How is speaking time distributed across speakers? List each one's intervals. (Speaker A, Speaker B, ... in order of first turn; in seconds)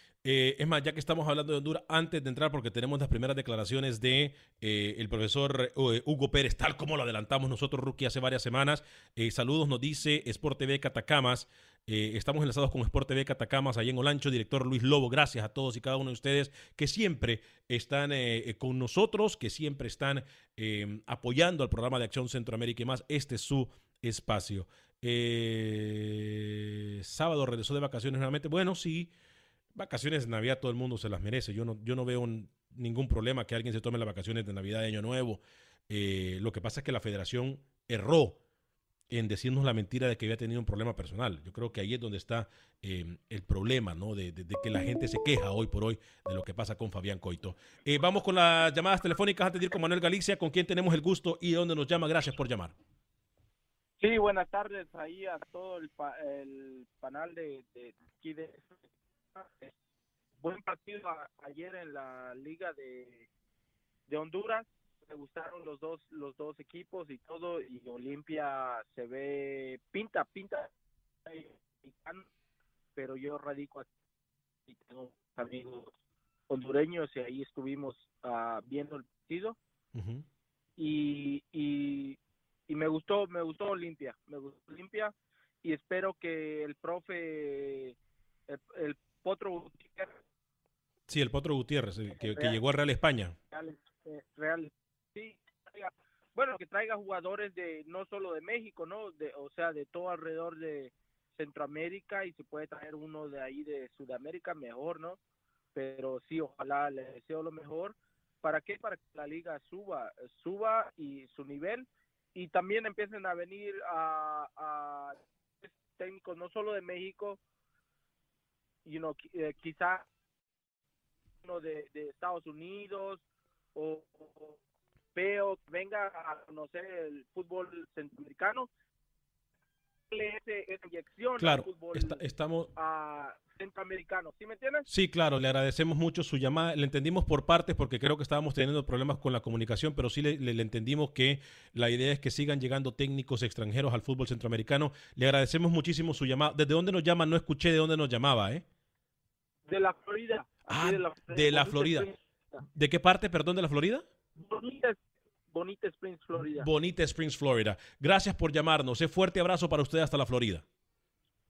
Speaker A: 0.2-29.1, 29.7-38.4, 39.1-52.7, 79.9-80.2, 91.1-93.3, 131.4-132.7, 134.9-148.6, 150.7-152.1, 152.7-154.0, 156.4-160.6
Speaker B: 54.0-58.8, 59.3-59.7, 60.4-63.3, 64.1-70.7, 71.2-72.3, 73.0-73.9, 74.7-75.9, 76.5-79.6, 80.8-88.0, 88.5-90.2, 92.1-92.6, 93.5-105.2, 105.7-117.4, 118.8-120.0, 121.4-123.2, 123.7-124.6, 125.1-128.7, 130.1-132.2, 132.8-134.8, 149.7-152.6, 154.3-156.7